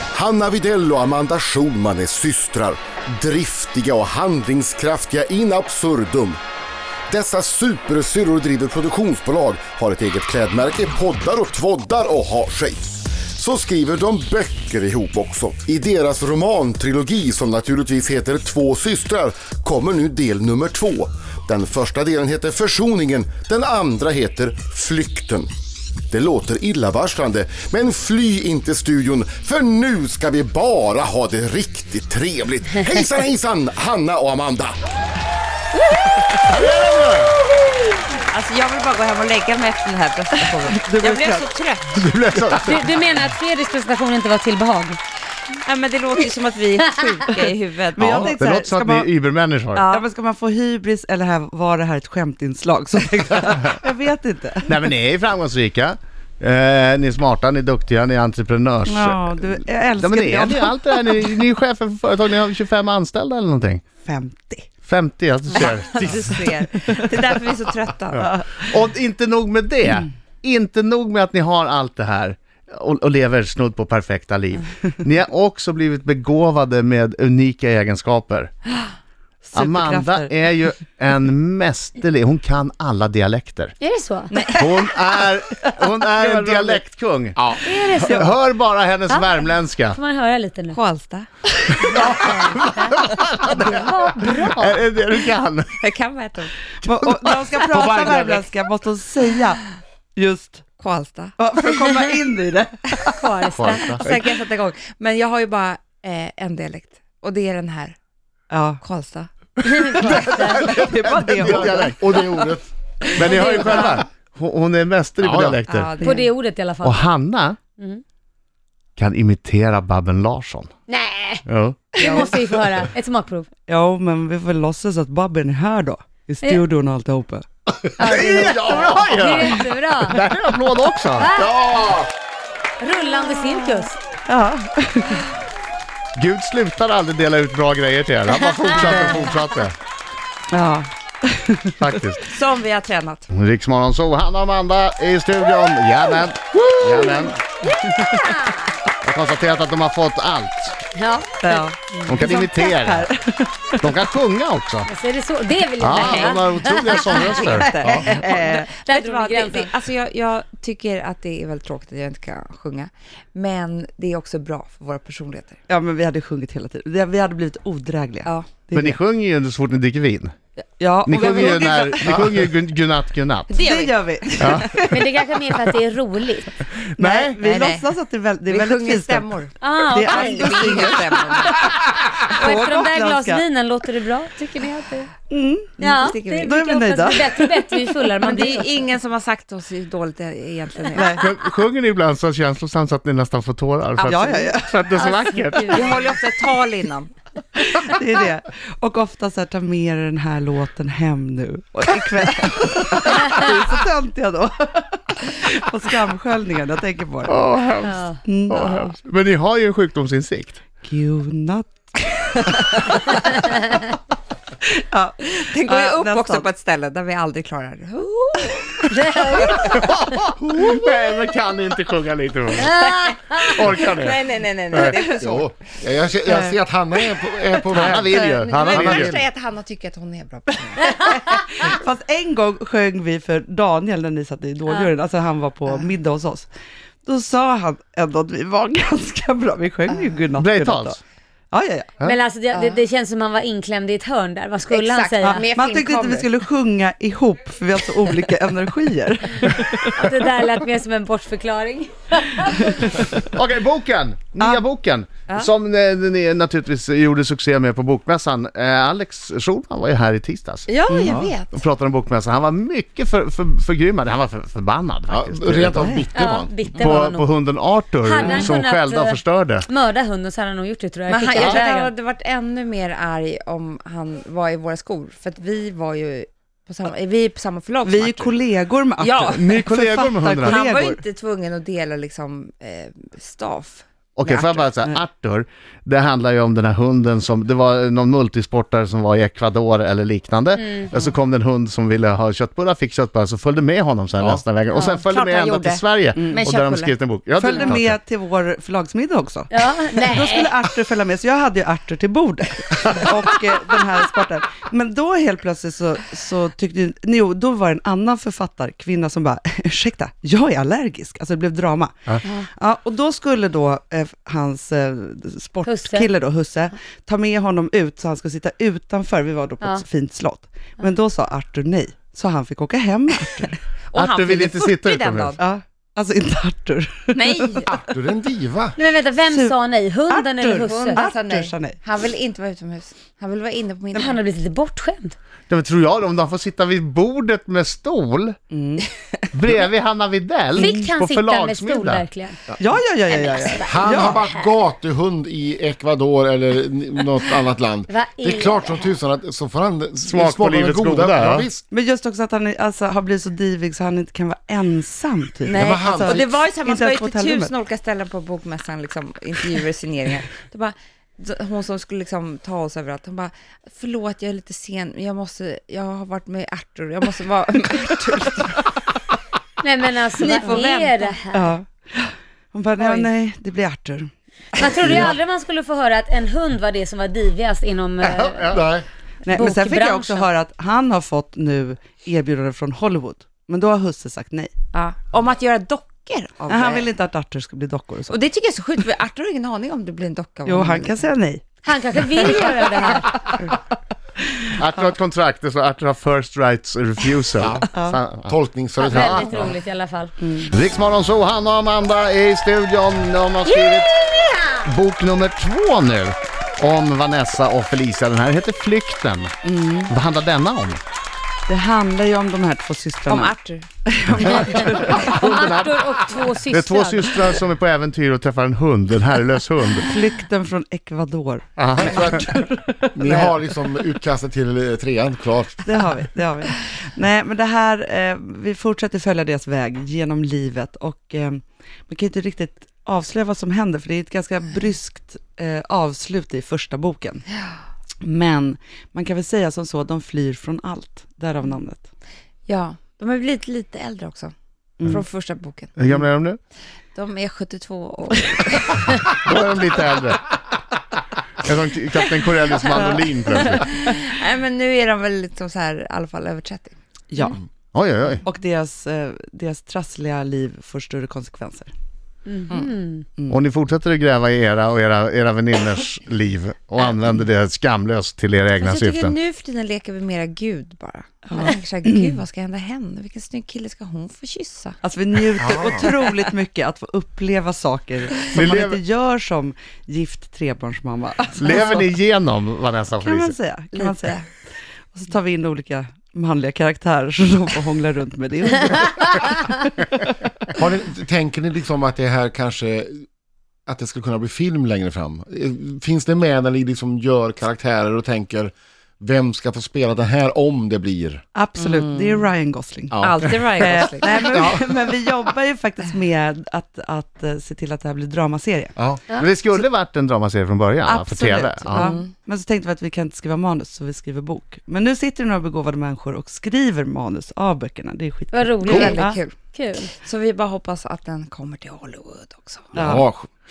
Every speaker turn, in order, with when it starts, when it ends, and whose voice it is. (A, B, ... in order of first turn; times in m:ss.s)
0:00.1-0:06.4 A
0:07.1-0:25.5 A
0:26.1-0:34.8 A
0:35.9-0:36.6 B
0:36.4-0:37.4 C
0:38.3-0:42.5 B
0:40.4-0:41.5 D
0:42.0-0:43.0 C
0:42.5-0:45.0 E
0:45.6-0:48.5 B
0:46.8-0:47.4 E
0:48.0-0:49.1 D
0:48.0-0:49.8 C
0:49.8-0:50.0 B
0:49.8-0:54.9 D
0:54.6-0:59.4 C
0:58.9-1:01.2 D
1:00.0-1:03.8 C
1:04.0-1:04.7 D
1:04.8-1:06.4 C
1:05.5-1:08.4 B
1:08.2-1:18.5 C
1:19.4-1:20.3 D
1:19.5-1:23.8 C
1:23.8-1:24.4 E
1:24.3-1:25.3 B
1:24.6-1:30.0 C
1:27.4-1:27.6 A
1:27.6-1:28.3 E
1:28.0-1:28.3 D
1:29.1-1:30.8 E
1:30.7-1:31.3 B
1:31.8-1:34.8 E
1:31.9-1:35.8 C
1:32.0-1:32.3 B
1:33.1-1:33.7 B
1:35.8-1:36.5 B
1:36.8-1:40.6 D
1:36.9-1:38.4 C
1:40.8-1:41.7 B
1:41.4-1:43.3 D
1:43.1-1:44.1 E
1:43.5-1:44.1 C
1:43.6-1:48.0 B
1:48.5-1:48.8 D
1:48.8-1:49.3 B
1:49.6-1:50.7 E
1:50.0-1:52.0 C
1:50.0-1:50.3 B
1:50.2-1:51.9 D
1:51.3-1:52.7 A
1:53.1-1:55.9 C
1:53.2-1:54.0 E
1:55.2-1:55.6 A
1:55.7-1:56.3 B
1:56.0-1:57.1 E
1:56.8-1:57.6 C
1:59.0-2:00.7 C
2:00.9-2:01.4 E
2:01.5-2:01.9 C
2:02.0-2:03.5 E
2:02.0-2:02.2 D
2:02.0-2:02.5 B
2:03.7-2:07.5 D
2:08.0-2:10.2 E
2:08.0-2:11.3 C
2:08.1-2:08.5 A
2:11.2-2:11.6 E
2:11.4-2:12.1 A
2:12.8-2:14.0 E
2:14.3-2:15.3 D
2:16.2-2:19.8 C
2:18.6-2:19.3 E
2:20.5-2:22.0 D
2:21.8-2:22.2 C
2:22.2-2:23.3 B
2:23.3-2:27.4 C
2:26.6-2:27.2 D
2:27.6-2:28.8 E
2:29.0-2:30.8 C
2:30.9-2:32.1 E
2:31.4-2:33.9 D
2:32.0-2:32.7 B
2:32.1-2:33.1 C
2:33.8-2:34.9 C
2:34.9-2:37.8 E
2:35.8-2:38.3 C
2:36.0-2:45.6 B
2:36.9-2:38.8 D
2:38.7-2:39.7 E
2:45.7-2:49.0 D
2:48.7-2:50.3 C
2:50.8-2:52.4 D
2:51.1-2:53.5 C
2:53.5-2:55.0 B
2:53.6-2:55.2 D
2:54.4-2:54.7 C
2:54.9-2:56.6 E
2:56.7-2:57.4 C
2:57.0-2:59.3 D
2:57.4-2:57.9 B
2:58.5-3:02.4 B
2:59.6-3:00.6 E
2:59.8-3:01.7 D
3:02.3-3:03.4 D
3:02.3-3:05.1 E
3:05.3-3:05.8 D
3:05.8-3:06.7 B
3:05.8-3:08.7 E
3:06.4-3:08.0 D
3:08.2-3:11.3 B
3:10.9-3:11.2 D
3:11.1-3:16.0 C
3:14.0-3:14.9 D
3:14.9-3:16.1 E
3:15.7-3:17.1 B
3:17.6-3:27.4 D
3:27.3-3:30.6 C
3:27.8-3:28.2 E
3:28.2-3:28.7 D
3:30.8-3:33.8 D
3:33.2-3:33.8 E
3:34.6-3:36.5 D
3:35.4-3:39.9 B
3:38.9-3:39.8 E
3:39.3-3:45.0 C
3:42.6-3:43.5 E
3:42.7-3:45.8 B
3:45.1-3:49.1 A
3:47.7-3:49.2 C
3:47.9-3:51.7 B
3:51.1-3:56.5 D
3:57.1-4:01.0 D
4:00.4-4:01.0 C
4:01.5-4:02.0 D
4:02.0-4:05.5 E
4:02.5-4:02.8 B
4:04.7-4:06.3 B
4:05.2-4:10.2 D
4:09.9-4:13.0 E
4:12.8-4:13.1 D
4:13.2-4:20.7 C
4:20.7-4:21.6 B
4:20.9-4:21.2 D
4:21.5-4:26.0 C
4:25.1-4:26.5 A
4:25.8-4:26.1 D
4:26.1-4:27.4 E
4:26.8-4:29.7 C
4:28.0-4:31.9 E
4:31.1-4:38.4 B
4:37.8-4:41.0 D
4:39.0-4:39.8 B
4:39.3-4:40.6 C
4:40.3-4:44.7 B
4:44.2-4:58.0 C
4:50.6-4:51.0 E
4:54.8-4:56.9 B
4:56.2-4:56.4 D
4:57.4-5:23.6 D
4:59.5-5:00.5 E
5:15.6-5:16.1 E
5:23.9-5:25.4 B
5:24.0-5:25.4 C
5:25.4-5:27.8 D
5:27.1-5:27.9 B
5:27.9-5:28.8 A
5:28.8-5:31.1 E
5:29.3-5:29.6 D
5:30.1-5:31.8 D
5:30.6-5:34.2 B
5:34.0-5:35.2 E
5:35.5-5:38.4 C
5:38.5-5:38.9 D
5:39.3-5:42.1 C
5:40.6-5:42.4 E
5:42.6-5:44.2 D
5:43.1-5:44.4 E
5:43.7-5:51.6 A
5:47.9-5:48.9 E
5:50.0-5:51.5 C
5:51.7-5:57.5 D
5:55.4-6:09.0 B
5:55.5-5:56.4 A
6:09.6-6:11.6 E
6:10.2-6:11.2 B
6:11.3-6:14.1 D
6:12.8-6:13.1 E
6:14.6-6:18.7 E
6:18.1-6:18.6 C
6:18.6-6:18.8 A
6:19.2-6:20.3 E
6:19.2-6:24.5 D
6:24.7-6:26.9 B
6:26.5-6:28.2 D
6:28.1-6:31.1 B
6:30.5-6:31.4 D
6:31.6-6:33.3 E
6:32.2-6:32.5 D
6:33.2-6:33.5 D
6:34.5-6:38.3 C
6:37.4-6:37.7 A
6:37.7-6:38.0 D
6:38.2-6:39.5 A
6:38.8-6:40.1 E
6:38.9-6:39.4 C
6:40.2-6:40.5 D
6:40.5-6:44.0 C
6:43.5-6:44.7 E
6:44.6-6:49.3 C
6:49.4-6:49.9 D
6:49.9-6:50.8 C
6:51.5-6:53.4 D
6:53.1-6:53.7 B
6:53.9-6:55.1 D
6:54.5-6:57.4 E
6:54.7-6:55.8 C
6:56.5-6:59.9 C
6:59.9-7:03.4 D
7:01.6-7:02.2 C
7:02.9-7:05.6 A
7:05.7-7:17.2 D
7:18.0-7:21.9 D
7:22.5-7:24.3 B
7:24.8-7:25.8 B
7:25.8-7:26.4 C
7:27.0-7:29.2 B
7:29.0-7:30.3 C
7:31.4-7:33.7 C
7:33.3-7:36.8 B
7:37.1-7:37.4 D
7:37.7-7:38.2 C
7:38.2-7:41.7 D
7:42.3-7:43.1 E
7:43.3-7:49.2 C
7:48.6-7:54.8 B
7:51.3-7:52.2 D
7:54.8-8:01.9 D
7:58.3-7:58.8 C
8:01.4-8:03.4 C
8:01.5-8:01.8 B
8:03.0-8:04.3 D
8:03.8-8:04.2 B
8:04.9-8:09.3 D
8:09.0-8:09.5 E
8:10.6-8:13.0 A
8:13.7-8:21.2 A
8:21.4-8:23.0 D
8:21.6-8:22.2 B
8:22.9-8:24.6 A
8:23.0-8:24.5 B
8:23.6-8:28.7 D
8:28.8-8:29.0 A
8:29.2-8:31.9 C
8:30.9-8:39.2 D
8:31.3-8:32.1 B
8:38.3-8:39.9 E
8:38.6-8:39.4 B
8:39.9-8:43.0 B
8:42.7-8:43.0 D
8:42.7-8:43.3 A